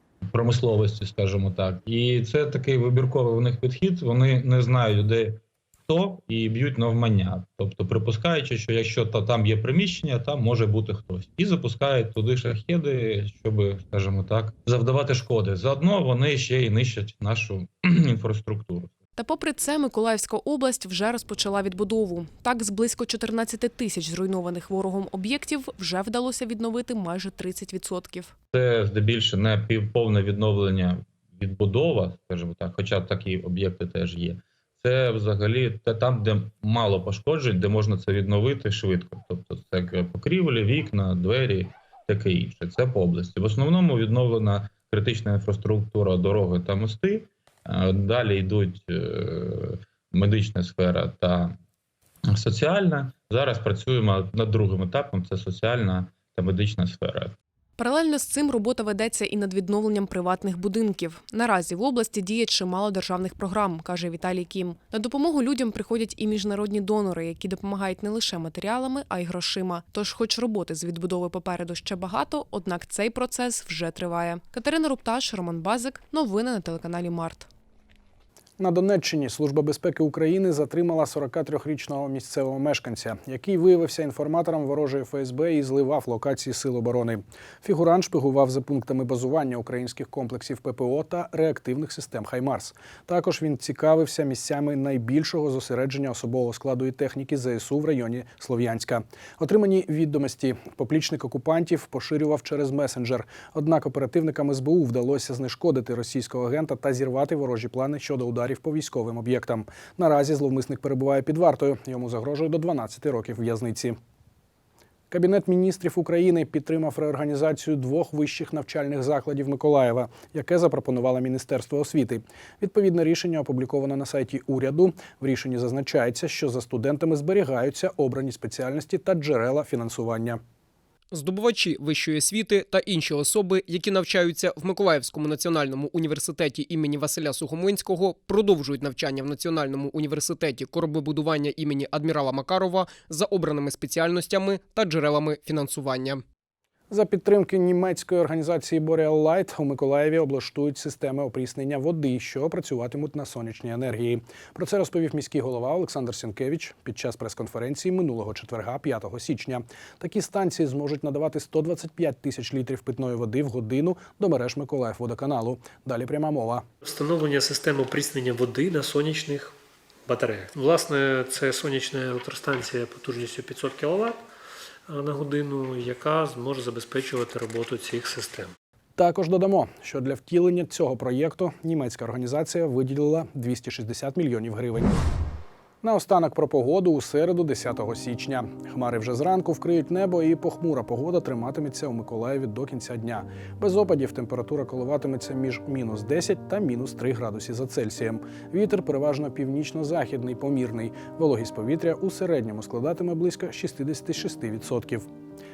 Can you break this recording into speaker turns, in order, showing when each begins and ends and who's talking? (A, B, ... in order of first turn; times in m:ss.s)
0:00.3-0:18.9 A
0:19.2-0:28.4 B
0:28.5-0:51.6 A
0:52.4-0:57.4 A
0:57.8-1:17.5 B
1:18.6-1:54.0 C
1:55.1-2:10.4 C
2:11.1-2:26.2 D
2:26.9-2:46.6 C
2:46.8-2:49.5 E
2:50.1-2:54.2 E
2:54.9-2:58.5 E
2:59.0-3:04.9 C
3:05.8-3:25.1 C